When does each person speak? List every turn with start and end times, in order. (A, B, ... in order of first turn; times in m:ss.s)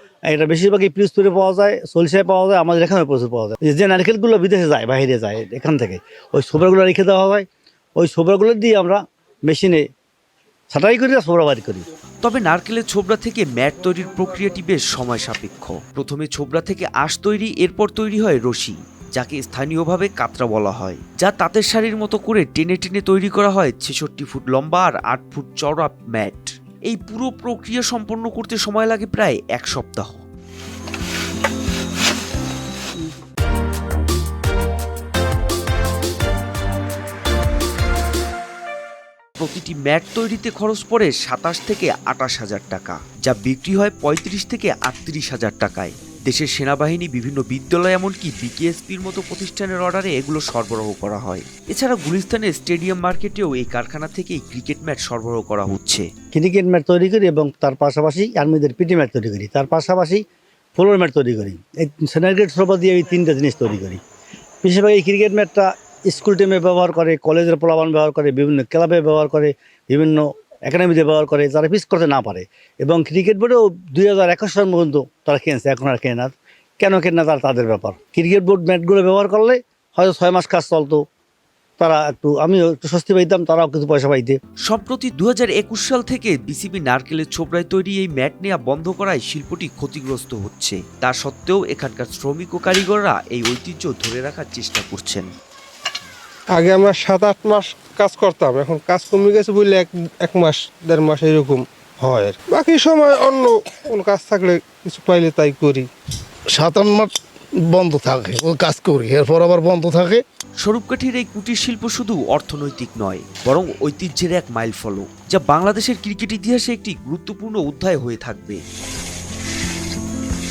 0:00.3-0:07.4 A
0:08.0-0:09.8 A
0:10.7-0:11.9 A
0:12.2-0:30.2 B
0:39.4-0:56.1 B
0:56.3-1:00.2 A
1:00.8-1:04.0 A
1:04.6-1:21.0 A
1:21.8-1:24.4 A
1:24.7-1:35.3 B
1:36.6-1:45.9 C
1:46.5-1:47.1 D
1:47.7-1:50.2 D
1:50.6-1:58.6 B